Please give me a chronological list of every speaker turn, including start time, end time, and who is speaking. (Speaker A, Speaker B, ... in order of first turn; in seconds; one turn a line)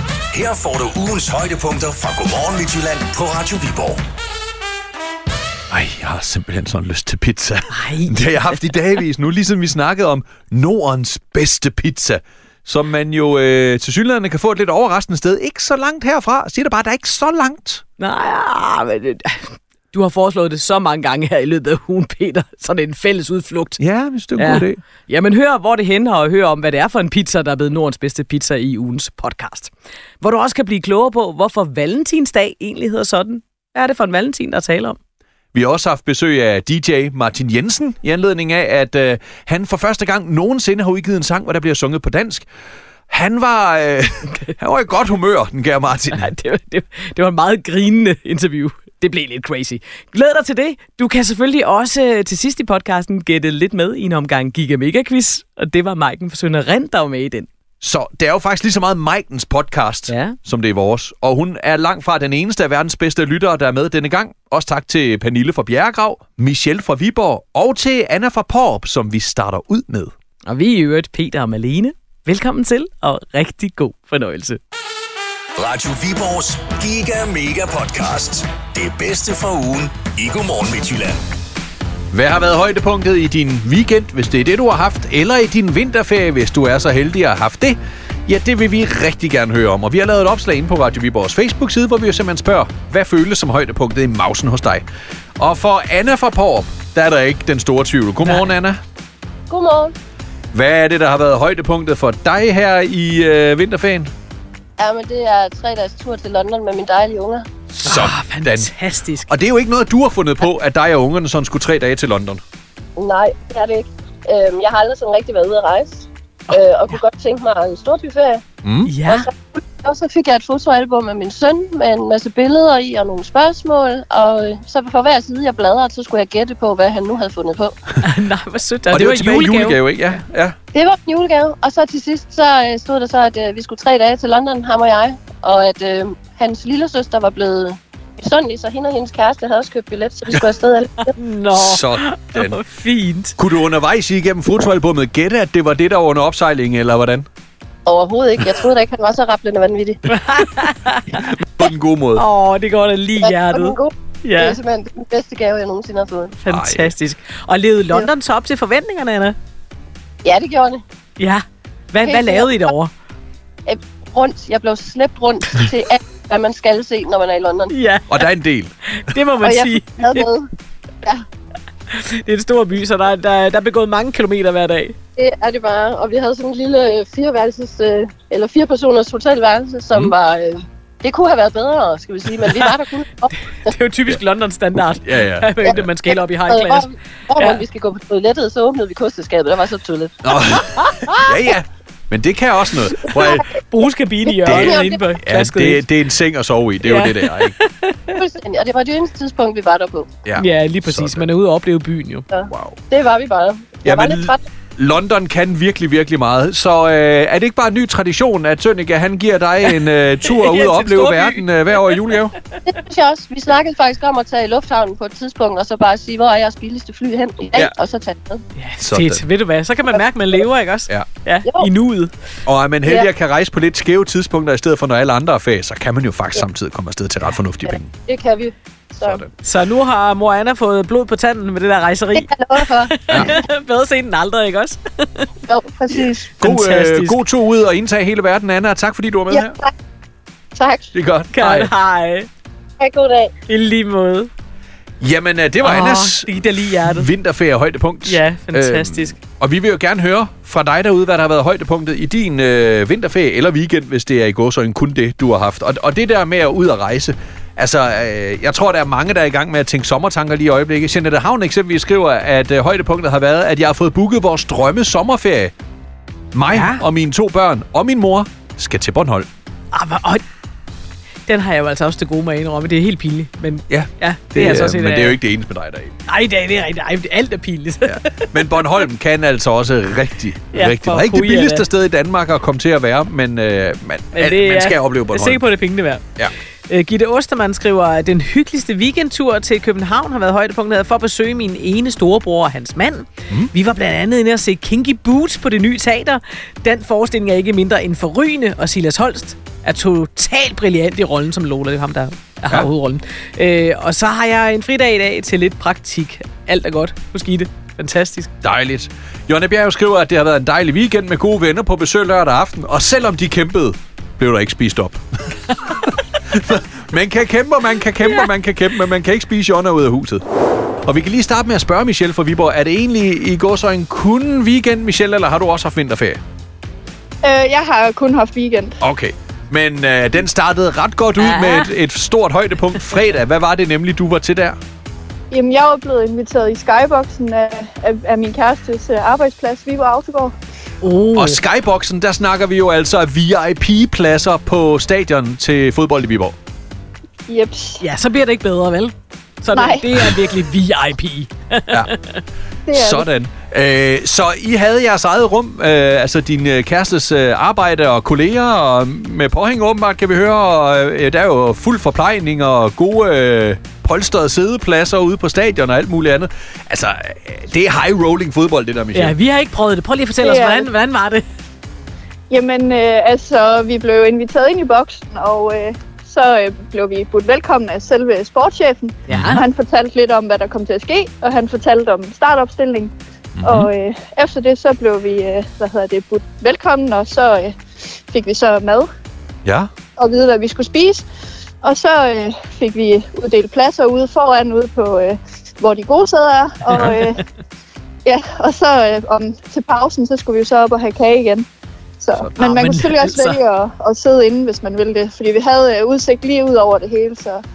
Speaker A: 0.3-4.0
Speaker B: 5.7-17.8
Speaker C: 7.7-8.6
Speaker C: 18.0-23.8
Speaker B: 23.8-24.8
Speaker C: 24.4-35.0
Speaker B: 35.5-42.5
Speaker B: 43.1-46.3
Speaker C: 46.2-57.5
Speaker B: 57.8-70.1
Speaker C: 60.1-60.4
Speaker C: 70.5-74.6
Speaker A: 75.6-81.2
Speaker B: 82.1-94.8
Speaker B: 95.4-98.8
Speaker C: 98.2-98.5
Speaker D: 99.5-99.9
Speaker B: 100.5-104.1
Speaker D: 104.8-107.5
Speaker B: 107.7-108.7
Speaker C: 107.8-109.3
Speaker B: 109.3-112.4
Speaker D: 113.0-118.4
Speaker C: 116.5-117.0
Speaker B: 118.6-118.9
Speaker C: 118.8-119.3
Speaker D: 119.0-127.8
Speaker C: 128.0-129.8
Speaker B: 128.9-130.6
Speaker D: 130.7-141.1
Speaker C: 141.1-143.3
Speaker B: 141.5-142.6
Speaker B: 143.4-147.2
Speaker D: 147.8-150.0
Speaker C: 150.1-151.3
Speaker B: 151.2-152.2
Speaker C: 152.2-154.6
Speaker D: 153.2-156.4
Speaker C: 156.4-159.4
Speaker B: 156.5-156.9
Speaker D: 160.2-160.8
Speaker C: 161.2-162.9
Speaker D: 162.0-162.7
Speaker D: 163.7-167.7
Speaker C: 167.7-168.2
Speaker B: 168.1-168.7
Speaker C: 168.9-170.3
Speaker D: 169.4-170.5
Speaker C: 171.9-175.0
Speaker D: 175.2-183.7
Speaker C: 183.6-187.6
Speaker B: 185.0-185.8
Speaker D: 185.6-190.2
Speaker B: 190.2-193.5
Speaker C: 193.1-195.8
Speaker D: 194.2-195.1
Speaker B: 194.4-197.5
Speaker C: 196.8-198.1
Speaker D: 198.2-200.1
Speaker B: 200.2-201.3
Speaker C: 200.4-202.3
Speaker D: 202.3-204.4
Speaker B: 202.5-202.8
Speaker B: 203.8-212.3
Speaker C: 210.2-211.5
Speaker D: 212.7-218.4
Speaker C: 218.6-222.1
Speaker B: 218.8-219.2
Speaker D: 221.4-221.7
Speaker B: 222.4-227.9
Speaker D: 227.7-229.2
Speaker B: 229.0-229.3
Speaker C: 229.4-235.3
Speaker D: 232.2-233.3
Speaker D: 235.4-236.3
Speaker B: 236.4-239.6
Speaker C: 236.4-237.2
Speaker D: 239.3-239.7
Speaker D: 240.6-240.9
Speaker B: 240.9-241.7
Speaker C: 241.3-242.3
Speaker D: 242.8-243.3
Speaker C: 243.5-244.3
Speaker B: 245.0-265.5
Speaker C: 245.6-247.1
Speaker C: 248.0-249.2
Speaker B: 266.3-269.3
Speaker C: 266.5-266.8
Speaker C: 269.7-270.2
Speaker C: 271.3-275.2
Speaker B: 273.7-275.9
Speaker C: 276.1-278.3
Speaker B: 277.8-285.5
Speaker C: 280.5-281.6
Speaker C: 284.1-286.0
Speaker C: 286.7-308.3
Speaker B: 308.4-320.2
Speaker B: 320.8-326.2
Speaker E: 327.2-328.8
Speaker B: 328.8-334.6
Speaker C: 331.2-331.7
Speaker E: 335.3-340.3
Speaker C: 340.8-341.4
Speaker B: 341.1-346.4
Speaker E: 347.3-347.8
Speaker C: 347.8-352.2
Speaker E: 349.5-350.0
Speaker E: 352.7-353.1
Speaker B: 352.7-369.1
Speaker C: 368.9-371.2
Speaker E: 370.2-370.7
Speaker E: 372.3-387.5
Speaker C: 379.1-379.4
Speaker B: 379.1-379.4
Speaker B: 383.4-383.7
Speaker E: 388.1-388.9
Speaker B: 389.4-389.7
Speaker E: 390.0-391.0
Speaker E: 391.6-397.2
Speaker C: 396.7-397.2
Speaker E: 398.1-401.4
Speaker E: 402.0-407.4
Speaker C: 402.4-403.4